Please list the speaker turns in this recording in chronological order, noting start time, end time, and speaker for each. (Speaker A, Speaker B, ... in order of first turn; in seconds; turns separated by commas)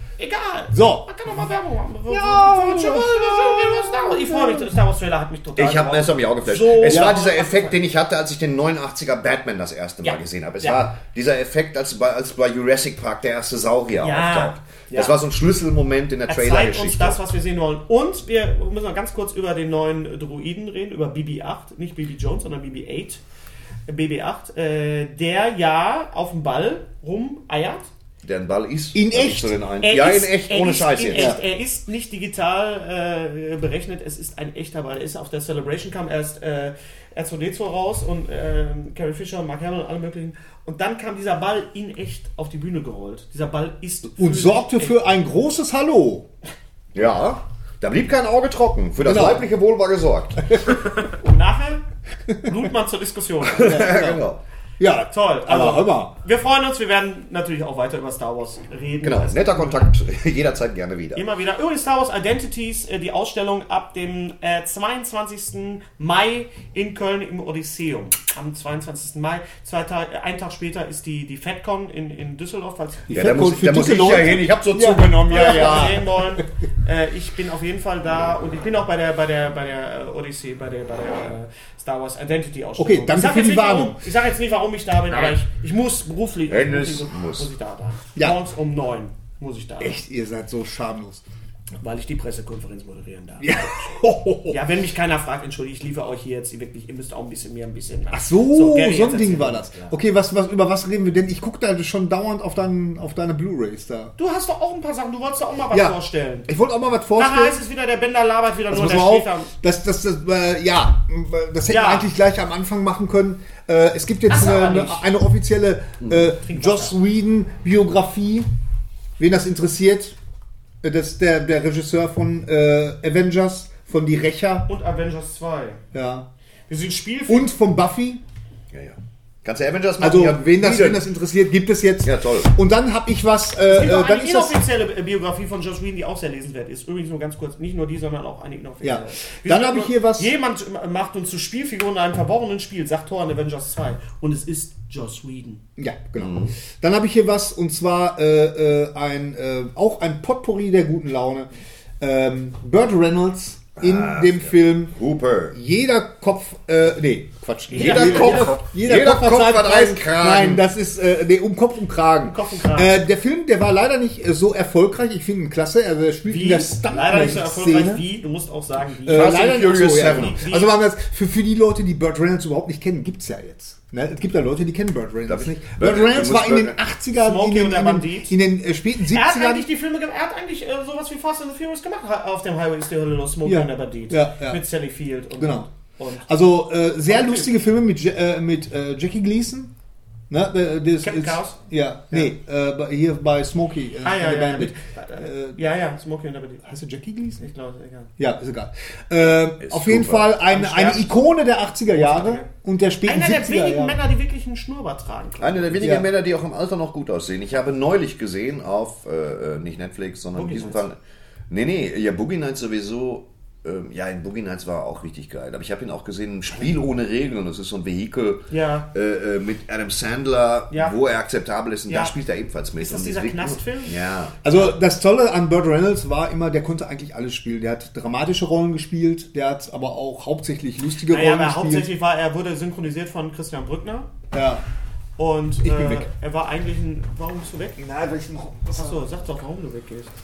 Speaker A: 0.2-7.8, Speaker B: 0.7-1.1, Speaker B: 2.1-4.7, Speaker C: 5.6-17.2, Speaker B: 6.9-7.1, Speaker A: 10.0-10.9, Speaker A: 14.0-15.2, Speaker A: 16.3-23.2, Speaker A: 23.9-27.9, Speaker C: 28.2-31.4, Speaker B: 28.9-29.6, Speaker A: 29.8-45.0, Speaker B: 44.2-46.3, Speaker C: 46.9-50.5, Speaker B: 49.0-49.5, Speaker B: 50.5-50.8, Speaker A: 51.1-51.8, Speaker A: 52.4-54.1, Speaker C: 53.4-54.4, Speaker B: 53.6-54.2, Speaker B: 54.8-56.1, Speaker A: 55.1-59.9, Speaker C: 59.0-61.3, Speaker A: 61.1-73.3, Speaker C: 73.1-76.0, Speaker B: 73.1-76.4, Speaker A: 75.3-90.0, Speaker B: 82.8-84.0, Speaker C: 86.5-87.5, Speaker B: 89.8-91.2, Speaker A: 91.8-93.7, Speaker B: 93.4-94.6, Speaker A: 94.5-100.0, Speaker B: 98.1-104.1, Speaker A: 104.2-106.5, Speaker B: 105.7-107.6, Speaker A: 107.2-109.5, Speaker B: 108.7-118.5, Speaker A: 111.7-112.1, Speaker A: 114.3-115.0, Speaker C: 116.0-116.3, Speaker A: 116.4-117.0, Speaker B: 119.2-120.2, Speaker B: 120.8-124.7, Speaker A: 124.7-125.8, Speaker B: 125.9-126.3, Speaker A: 126.7-127.5, Speaker B: 127.3-128.2, Speaker C: 128.7-131.1, Speaker B: 130.0-134.6, Speaker C: 132.0-132.5, Speaker A: 133.7-145.6, Speaker B: 138.8-140.3, Speaker B: 145.8-154.9, Speaker C: 146.2-146.6, Speaker C: 153.8-155.6, Speaker B: 155.5-168.0, Speaker A: 157.7-158.6, Speaker C: 157.7-160.7, Speaker A: 162.2-163.0, Speaker A: 166.3-170.7, Speaker B: 169.1-179.7, Speaker C: 169.1-170.4, Speaker C: 175.3-176.8, Speaker A: 177.2-178.4, Speaker A: 179.1-186.3, Speaker B: 183.4-184.6, Speaker B: 185.4-185.7, Speaker B: 186.2-189.7, Speaker A: 187.1-187.5, Speaker B: 190.3-195.6, Speaker A: 191.0-191.6, Speaker A: 194.0-196.6, Speaker B: 196.6-197.4, Speaker A: 197.4-198.1, Speaker B: 198.2-204.0, Speaker C: 199.5-200.4, Speaker A: 200.5-201.2, Speaker A: 201.9-202.5, Speaker A: 203.1-205.9, Speaker C: 205.4-211.0, Speaker B: 205.8-206.1, Speaker A: 210.3-210.8, Speaker C: 211.5-224.4, Speaker A: 218.5-218.9, Speaker A: 220.7-221.0, Speaker A: 221.9-222.1, Speaker A: 222.8-224.0, Speaker B: 224.4-231.9, Speaker A: 231.1-234.1, Speaker B: 234.3-234.6, Speaker A: 235.2-237.8, Speaker B: 235.6-236.1, Speaker B: 237.8-239.0, Speaker A: 238.7-240.1